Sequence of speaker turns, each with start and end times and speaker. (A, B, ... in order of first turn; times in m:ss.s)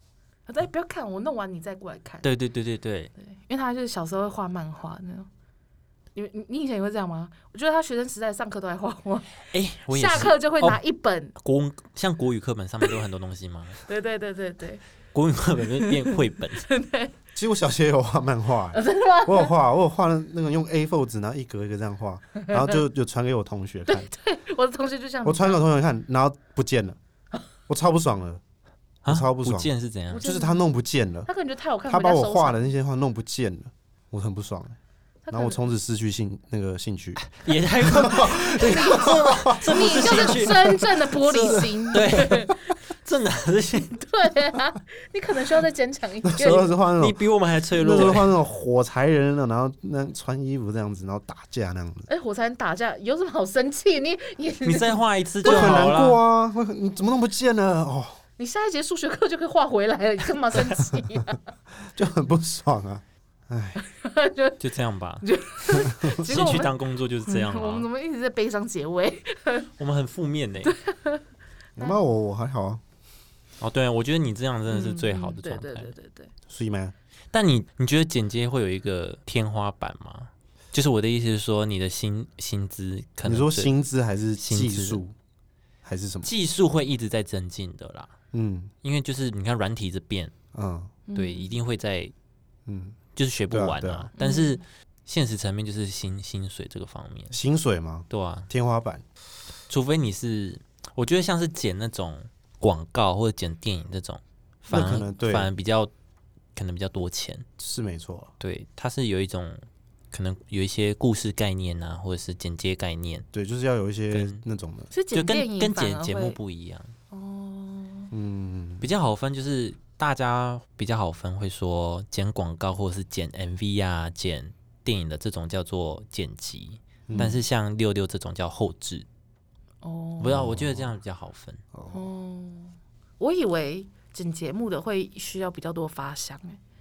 0:00.5-0:02.3 A
0:02.2-0:03.1 B
0:03.2-0:05.3 A
0:06.2-0:11.4 A
0:09.5-0:10.8 B
0:11.4-0:13.8 B
0:13.8-0:14.8 A
0:15.1-0:16.7 B
0:15.8-0:17.1 A
0:17.4-0:24.1 C
0:18.7-0:19.5 A
0:22.4-0:22.7 A
0:23.9-0:25.6 A
0:25.2-0:27.0 C
0:27.7-0:28.4 C
0:29.0-0:30.2 B
0:29.1-0:29.7 C
0:30.1-0:30.6 A
0:30.2-0:31.3 C
0:31.3-0:32.7 A
0:31.9-0:34.8 C
0:35.2-0:35.7 A
0:35.3-0:42.3 C
0:37.3-0:44.0 B
0:38.6-0:42.8 A
0:43.9-0:46.8 A
0:46.2-0:47.2 C
0:47.0-0:48.4 B
0:47.8-0:52.1 C
0:52.1-0:55.9 A
0:54.6-0:56.2 B
0:55.4-0:58.2 C
0:58.4-1:01.5 A
1:01.9-1:03.8 C
1:03.8-1:04.6 A
1:04.6-1:05.3 B
1:05.2-1:06.7 A
1:06.2-1:07.9 B
1:07.3-1:09.7 A
1:09.8-1:10.8 B
1:10.7-1:11.2 A
1:11.8-1:12.8 C
1:13.6-1:15.9 B
1:14.7-1:16.3 A
1:16.5-1:16.9 C
1:17.3-1:23.7 B
1:23.2-1:25.2 C
1:24.4-1:25.0 B
1:25.8-1:26.3 C
1:26.2-1:28.1 B
1:28.3-1:28.7 C
1:28.8-1:30.3 B
1:30.5-1:31.0 C
1:31.1-1:31.5 A
1:31.2-1:32.1 B
1:32.7-1:33.0 C
1:33.2-1:37.4 B
1:33.5-1:34.1 C
1:34.2-1:34.6 A
1:37.3-1:39.0 C
1:38.1-1:38.5 B
1:39.7-1:45.9 B
1:44.7-1:45.5 C
1:46.6-1:47.5 B
1:47.6-1:48.3 C
1:48.4-1:53.3 B
1:53.3-1:54.9 C
1:54.1-1:54.4 B
1:54.9-1:56.4 A
1:55.1-1:56.9 B
1:57.1-1:58.1 A
1:58.1-1:58.9 C
1:58.8-2:09.1 B
2:07.1-2:07.4 C
2:09.8-2:10.6 A
2:10.2-2:11.6 B
2:10.3-2:11.0 C
2:11.7-2:12.0 C
2:11.9-2:16.6 A